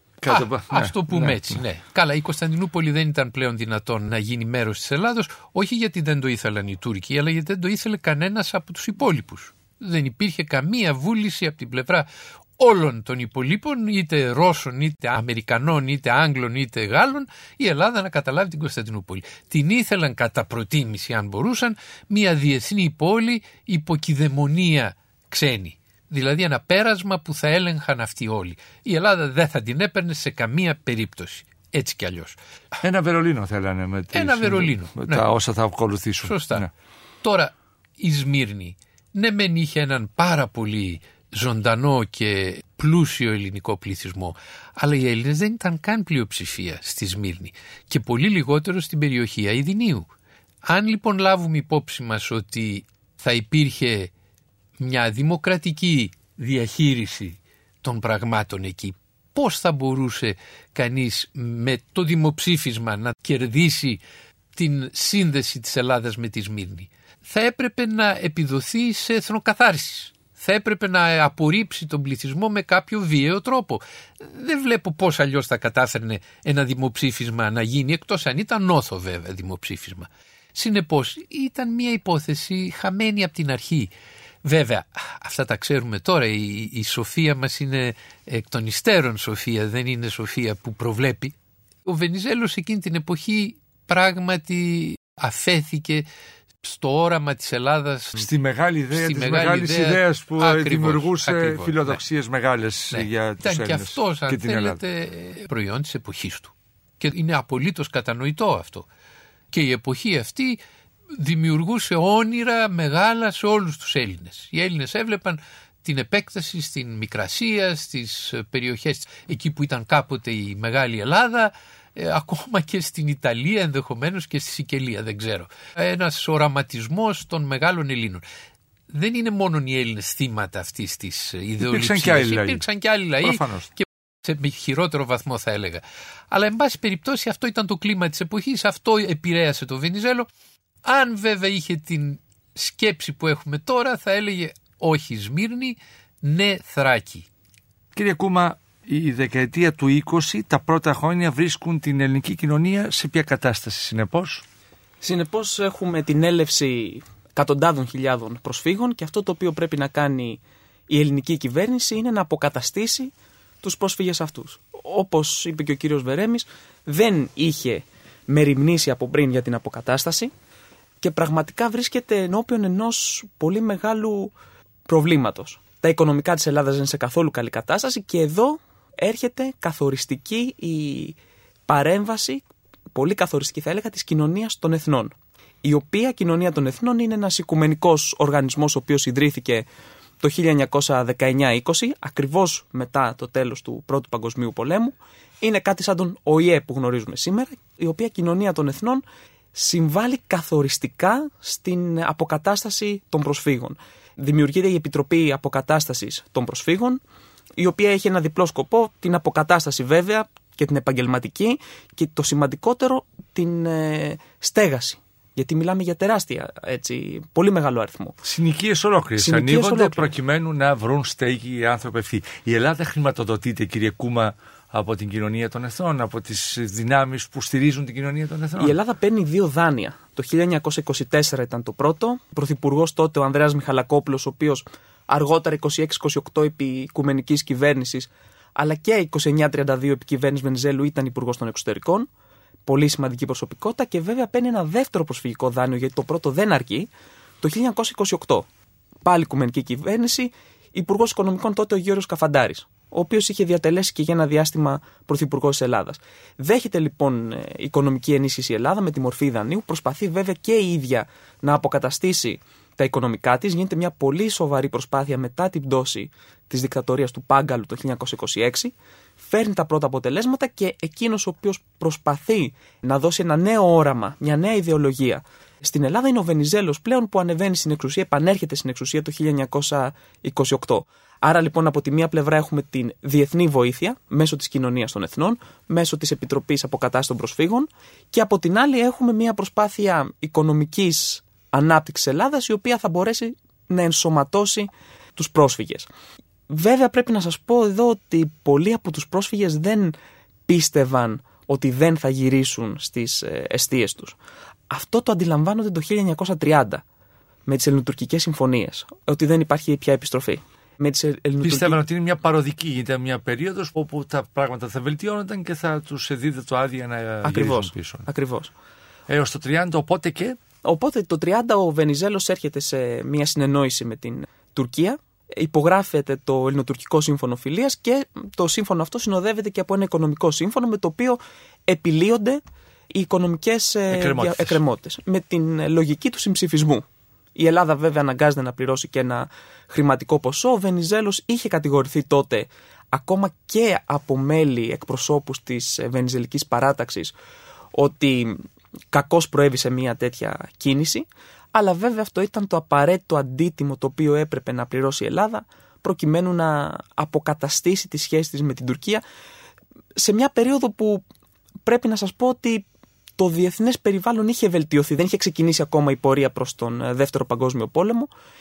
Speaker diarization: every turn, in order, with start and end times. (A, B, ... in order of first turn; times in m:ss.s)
0:00.2-0:01.5 A
0:00.3-0:12.1 B
0:12.6-0:32.4 B
0:32.8-0:36.7 A
0:34.1-0:35.3 B
0:36.2-0:36.6 B
0:37.2-0:50.1 B
0:50.6-0:54.1 B
0:54.8-1:04.0 B
1:04.5-1:23.9 B
1:24.4-1:31.3 B
1:31.8-1:36.0 B
1:36.6-1:38.3 B
1:38.2-1:44.8 A
1:38.9-1:42.0 B
1:42.9-1:48.9 B
1:49.5-1:50.6 B
1:51.1-2:08.2 B
2:08.9-2:20.3 B
2:11.6-2:12.6 A
2:13.2-2:13.7 A
2:20.8-2:27.2 B
2:27.9-2:34.4 A
2:35.0-2:50.3 C
2:51.0-2:54.3 C
2:54.8-3:09.7 C
3:10.2-3:27.0 C
3:27.6-3:38.2 C
3:38.2-3:48.8 A
3:39.2-3:40.1 C
3:48.6-4:02.1 C
4:02.7-4:06.9 C
4:07.4-4:08.5 C
4:09.0-4:55.9 C
4:56.5-4:59.9 C
5:00.5-5:04.2 C
5:04.7-5:06.8 C
5:07.5-5:11.8 C
5:11.4-5:18.1 A
5:17.2-5:18.5 C
5:19.1-5:20.4 A
5:20.6-5:36.8 C
5:33.9-5:34.6 A
5:37.3-5:47.1 C
5:47.7-5:59.0 C
6:00.0-6:01.0 C
6:01.6-6:02.6 C
6:03.2-6:08.1 C